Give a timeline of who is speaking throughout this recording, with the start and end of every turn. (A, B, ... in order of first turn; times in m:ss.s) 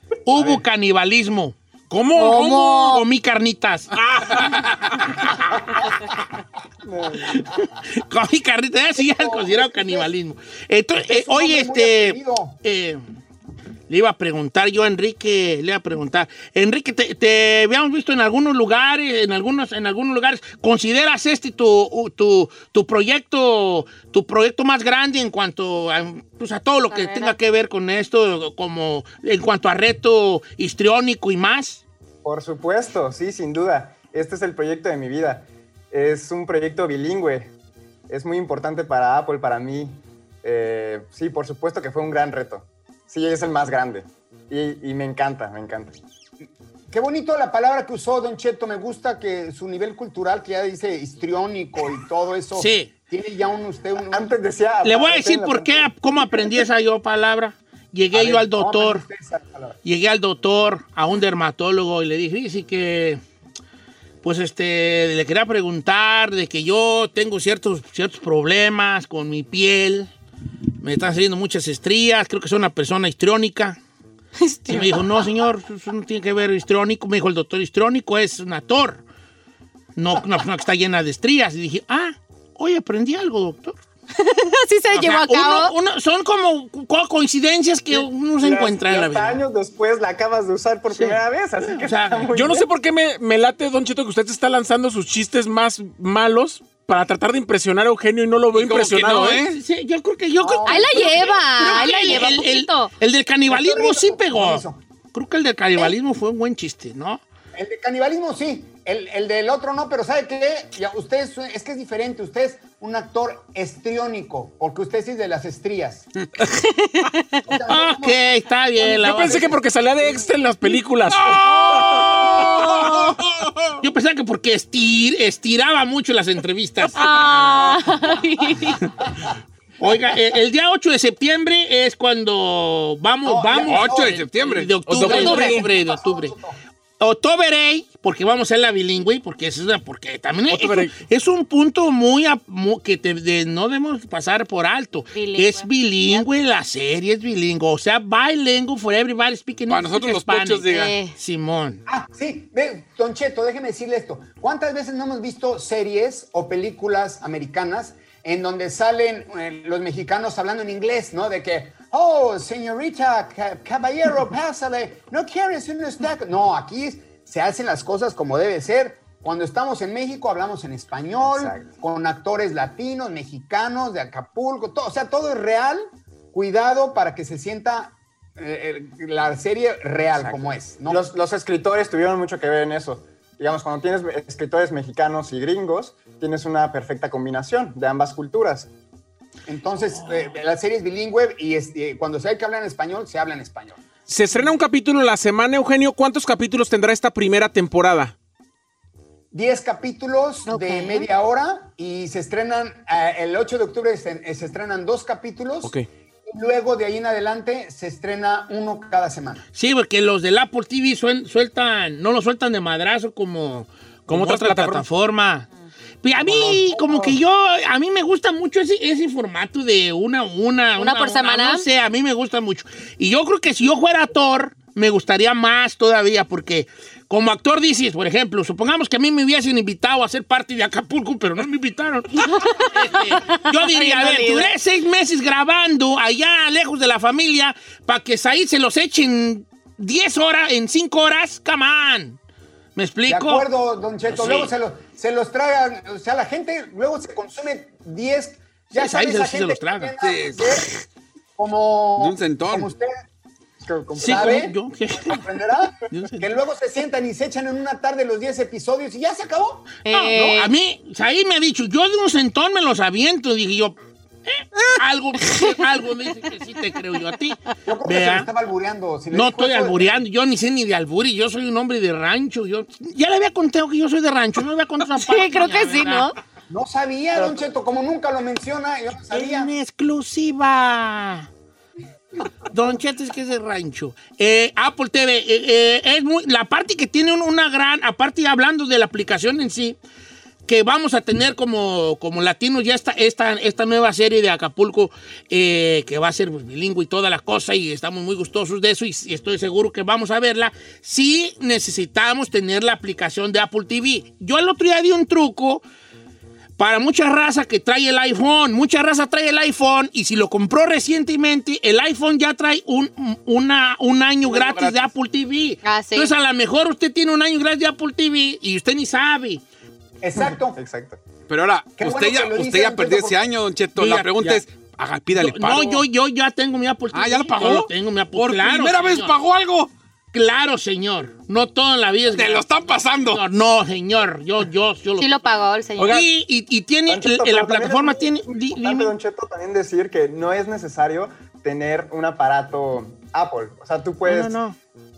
0:00.3-0:01.6 A
0:01.9-0:02.9 B
0:02.2-0:03.0 C
0:02.2-0:03.9 A
0:03.9-0:04.7 B
0:06.8-0:07.5 D
0:07.3-0:13.0 A
0:09.0-0:10.1 E
0:11.0-0:12.6 E
0:13.9-0:31.8 A
0:26.9-0:27.4 C
0:32.2-0:37.5 D
0:38.1-0:46.0 D
0:46.9-0:54.3 E
0:52.6-0:52.9 A
0:54.1-0:55.9 D
0:54.8-0:59.0 A
0:58.1-0:59.8 E
0:59.8-1:03.2 A
1:04.2-1:10.1 A
1:10.8-1:13.8 A
1:14.5-1:15.0 C
1:14.7-1:19.0 A
1:20.0-1:23.8 A
1:24.2-1:25.7 C
1:24.9-1:29.4 A
1:27.9-1:32.7 D
1:30.9-1:32.3 A
1:32.3-1:39.4 B
1:38.5-1:39.6 F
1:39.5-1:47.2 A
1:40.4-1:41.4 E
1:40.7-1:42.9 C
1:43.5-1:44.8 E
1:47.6-1:56.1 E
1:57.5-2:00.3 E
1:57.7-1:59.4 A
1:58.8-2:02.3 B
2:01.2-2:03.8 F
2:03.8-2:07.0 A
2:06.9-2:08.9 C
2:09.8-2:16.3 A
2:13.2-2:16.6 E
2:13.7-2:14.7 F
2:14.9-2:15.6 B
2:15.1-2:15.6 C
2:17.0-2:31.8 A
2:20.5-2:21.0 B
2:25.1-2:26.2 C
2:29.7-2:31.0 F
2:30.7-2:31.1 C
2:31.9-3:01.1 E
2:51.2-2:51.7 D
3:00.2-3:08.7 D
3:09.5-3:13.8 E
3:10.0-3:10.3 A
3:14.1-3:18.1 B
3:19.3-3:25.7 E
3:20.5-3:21.1 C
3:26.3-3:29.4 E
3:29.6-3:35.5 A
3:34.1-3:34.8 B
3:36.0-4:02.2 A
3:36.2-3:37.2 E
3:40.8-3:41.6 C
3:52.3-3:54.5 C
4:02.8-4:03.5 A
4:03.1-4:10.7 E
4:04.1-4:04.5 A
4:08.7-4:09.9 A
4:10.0-4:10.6 F
4:11.4-4:12.9 E
4:12.0-4:12.7 F
4:13.6-4:14.4 D
4:14.0-4:15.3 A
4:14.0-4:19.7 E
4:15.9-4:16.3 A
4:19.9-4:20.5 C
4:19.9-4:28.3 A
4:27.7-4:30.0 E
4:29.1-4:36.1 A
4:35.0-4:36.1 C
4:36.5-4:39.5 E
4:39.1-4:41.3 A
4:42.5-4:49.8 A
4:50.5-5:05.6 A
5:06.6-5:19.4 A
5:14.2-5:14.9 F
5:15.6-5:16.1 C
5:20.0-5:20.6 E
5:20.2-5:21.0 D
5:21.3-5:25.8 F
5:21.8-5:23.3 E
5:23.8-5:24.4 A
5:25.2-5:29.2 A
5:26.9-5:29.7 F
5:30.1-5:35.1 A
5:32.1-5:33.2 F
5:35.0-5:36.0 C
5:35.8-5:36.1 B
5:35.9-5:38.9 A
5:36.9-5:44.4 D
5:44.0-5:44.6 A